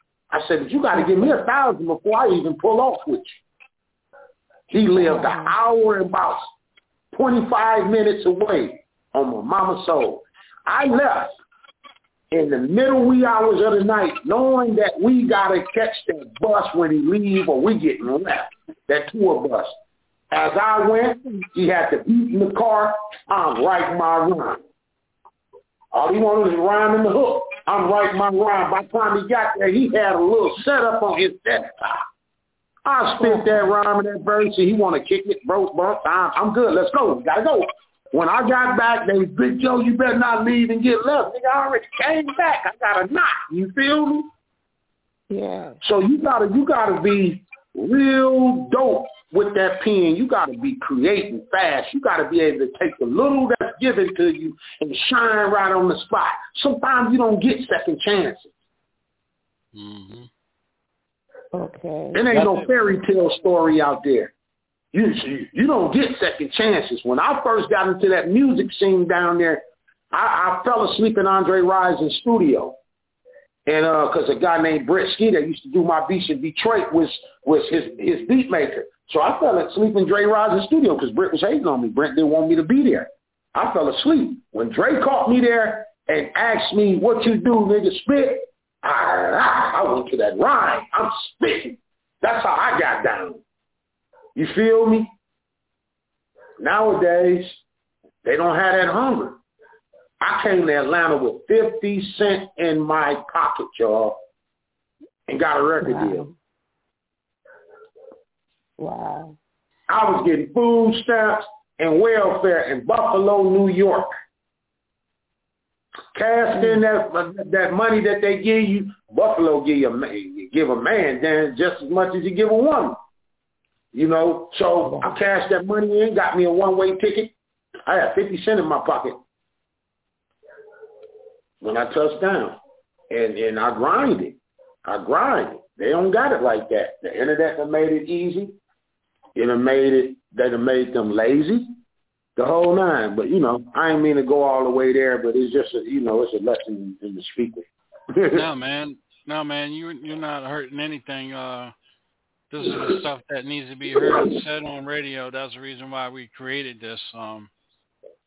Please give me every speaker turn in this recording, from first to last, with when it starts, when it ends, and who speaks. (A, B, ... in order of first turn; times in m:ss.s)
0:00.3-0:03.4 A
0:04.7-0:06.5 A
0:04.9-0:05.5 B
0:07.1-0:11.3 A
0:12.3-0:19.8 A
0:20.3-0:24.6 A
0:25.9-0:32.0 A
0:32.8-0:44.3 A
0:33.2-0:33.7 B
0:45.3-0:45.8 B
0:45.8-0:58.5 A
0:59.7-1:00.3 C
1:01.5-1:02.3 B
1:02.1-1:04.3 A
1:04.9-1:12.8 A
1:13.6-1:33.4 A
1:34.3-1:35.1 A
1:36.6-1:37.6 A
1:38.2-1:39.4 A
1:40.2-1:44.2 A
1:45.3-1:46.3 A
1:45.8-1:46.3 B
1:48.8-1:49.4 B
1:49.9-1:54.1 A
1:56.1-2:03.0 A
1:56.5-1:56.8 B
2:03.9-2:07.3 A
2:04.9-2:05.2 B
2:07.8-2:09.2 A
2:11.6-2:12.6 A
2:13.1-2:18.6 A
2:19.3-2:21.7 A
2:22.4-2:28.4 A
2:28.3-2:31.7 C
2:32.5-2:37.5 C